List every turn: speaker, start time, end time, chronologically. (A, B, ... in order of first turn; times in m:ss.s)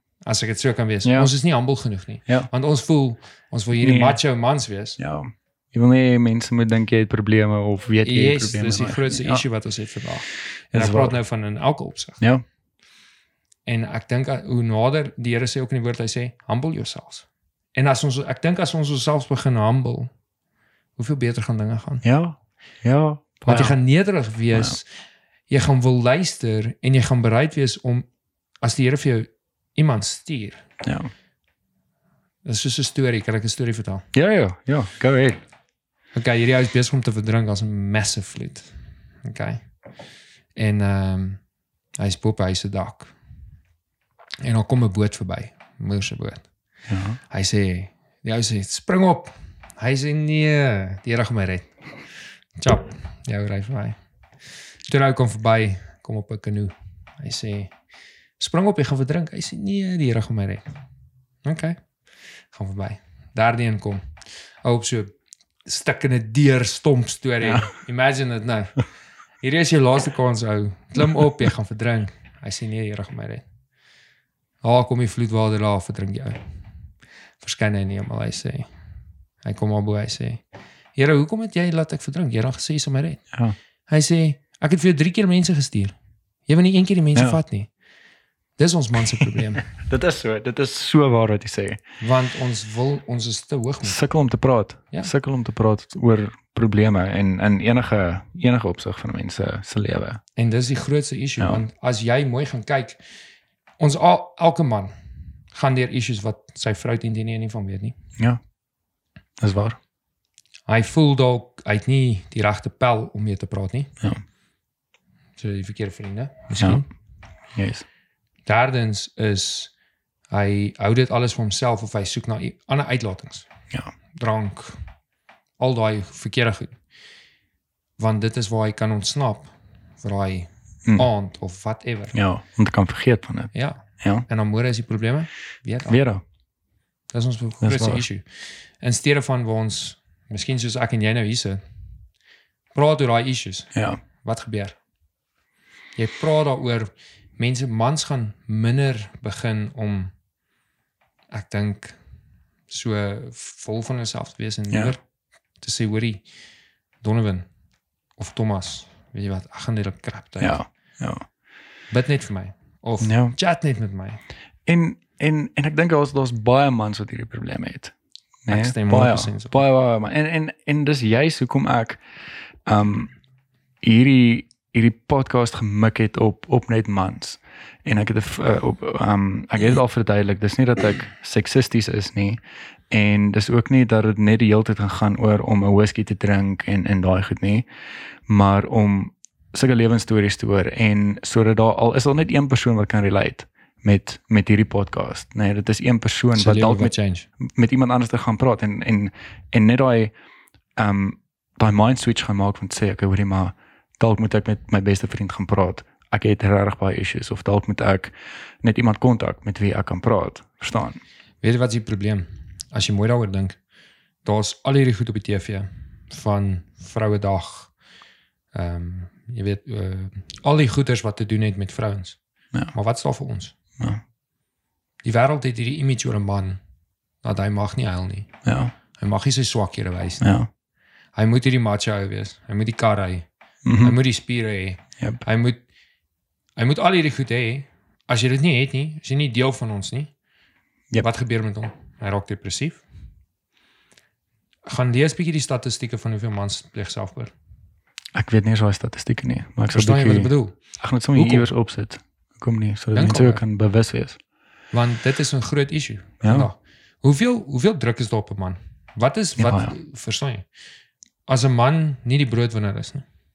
0:00.3-0:05.0 A
0:01.0-0:01.3 B
0:03.8-0:04.2 B
0:05.0-0:09.4 B
0:08.0-0:12.2 A
0:10.7-0:11.2 B
0:13.7-0:20.1 A
0:21.0-0:22.0 A
0:22.0-0:23.8 B
0:23.5-0:24.9 A
0:25.5-0:28.1 A
0:28.6-0:30.6 A
0:30.8-0:31.1 B
0:32.4-0:34.1 A
0:34.1-0:35.4 B
0:36.1-0:38.7 A
0:39.2-0:39.6 A
0:40.6-0:41.4 A
0:42.0-0:43.1 A
0:44.4-0:46.4 A
0:46.9-0:47.2 B
0:47.3-0:51.7 A
0:52.6-0:54.0 A
0:54.9-0:57.7 A
0:58.4-1:00.7 A
1:01.4-1:01.8 A
1:02.5-1:04.0 A
1:04.6-1:05.1 A
1:05.7-1:08.8 A
1:09.4-1:13.4 A
1:14.6-1:16.4 A
1:17.4-1:18.7 A
1:19.4-1:20.4 A
1:21.0-1:23.2 A
1:23.9-1:25.9 A
1:26.5-1:27.7 A
1:28.6-1:29.7 A
1:29.2-1:31.8 B
1:32.0-1:34.0 A
1:33.8-1:40.2 B
1:40.4-1:43.0 A
1:43.8-1:44.9 A
1:45.5-1:48.0 A
1:49.4-1:49.8 B
1:50.7-1:53.9 A
1:55.4-1:56.9 A
1:57.6-1:57.8 B
1:58.5-1:59.7 A
2:00.3-2:03.5 A
2:04.2-2:04.8 A
2:05.6-2:06.8 A
2:08.0-2:12.2 A
2:12.1-2:14.3 B
2:13.5-2:16.0 A
2:15.9-2:16.2 B
2:17.1-2:21.6 A
2:17.6-2:18.0 B
2:22.8-2:24.8 A
2:23.7-2:24.0 B
2:26.0-2:30.1 A
2:31.3-2:32.0 A
2:32.7-2:35.0 A
2:35.6-2:36.2 A
2:37.0-2:37.5 A
2:38.2-2:40.6 A
2:40.4-2:41.2 B
2:41.9-2:44.2 A
2:43.0-2:43.4 B
2:44.7-2:47.9 B
2:48.5-2:52.0 B
2:48.5-2:49.6 A
2:52.7-2:53.1 B
2:53.8-3:07.7 B
3:08.3-3:20.1 B
3:16.4-3:17.3 A
3:20.8-3:31.0 B
3:31.4-3:33.6 A
3:34.2-3:37.7 A
3:38.5-3:42.2 A
3:42.7-3:43.6 A
3:45.0-3:46.6 A
3:47.2-3:48.3 A
3:48.4-3:48.7 B
3:49.0-3:50.4 A
3:50.2-3:50.5 B
3:51.1-3:53.3 A
3:53.6-3:54.0 B
3:53.8-3:55.6 A
3:56.6-4:00.1 A
4:01.0-4:02.8 A
4:04.7-4:07.3 A
4:08.1-4:14.2 B
4:09.7-4:10.6 A
4:11.1-4:11.5 A
4:12.9-4:13.4 A
4:14.7-4:20.5 A
4:16.2-4:16.5 B
4:19.4-4:19.7 B
4:21.3-4:23.0 A